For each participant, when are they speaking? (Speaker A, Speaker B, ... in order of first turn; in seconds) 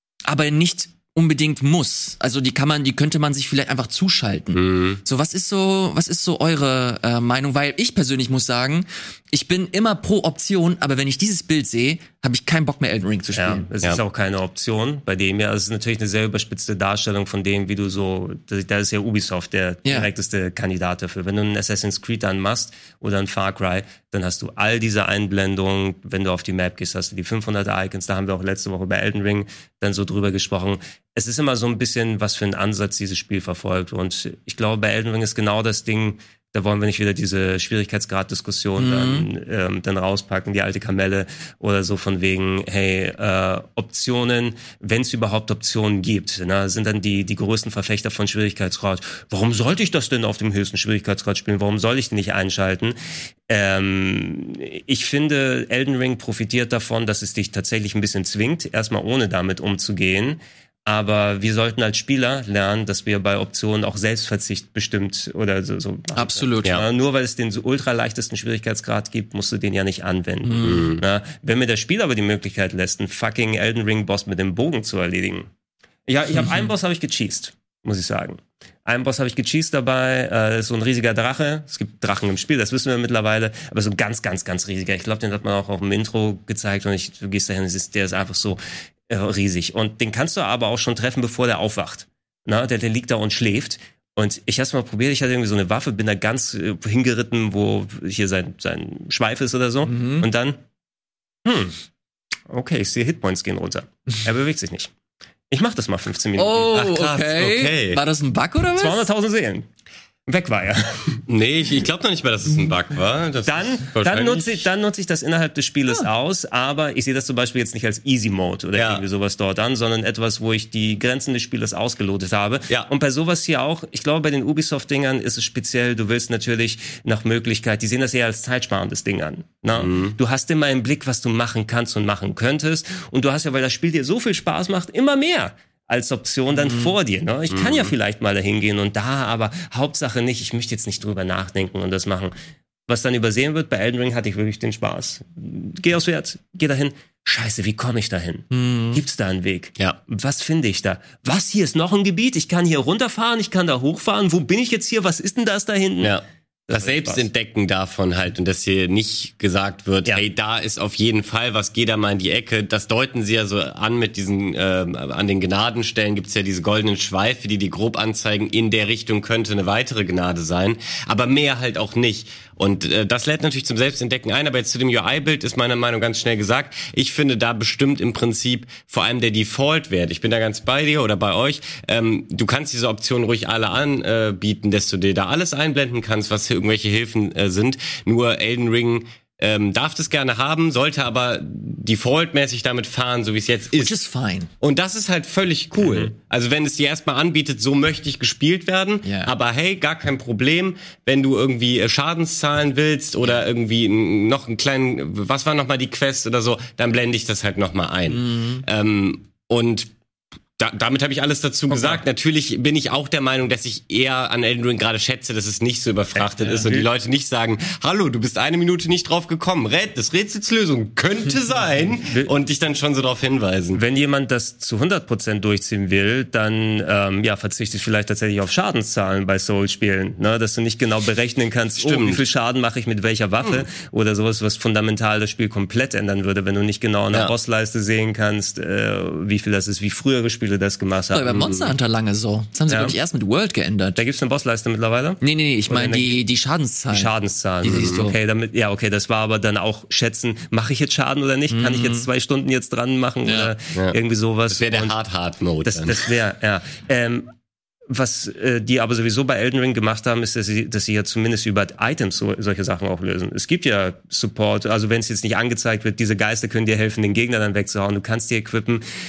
Speaker A: 0.3-13.7, 38.8-39.3, 66.1-66.8, 70.4-70.9, 99.9-100.2, 106.3-109.0, 148.5-149.0, 193.7-194.5, 199.0-199.3, 208.1-208.6, 241.1-244.0, 245.2-248.2, 251.5-252.1, 253.2-253.5
Speaker B: 4.5-5.0, 70.6-71.0, 106.7-108.0, 111.3-114.6, 118.8-119.0, 129.7-130.2, 137.5-137.9, 156.0-193.9, 194.6-209.9, 210.6-223.8, 231.8-232.2, 241.3-241.7, 247.7-248.0, 254.5-256.0
Speaker C: 13.3-53.0, 53.5-75.5, 76.1-100.6, 101.4-101.8, 102.5-104.9, 105.5-106.7, 108.8-109.7, 110.3-111.2, 113.5-142.3, 142.9-157.3, 211.7-212.0, 216.2-216.9, 223.7-241.5, 242.7-242.9, 244.0-246.2, 246.9-254.9, 255.7-257.3, 257.9-268.8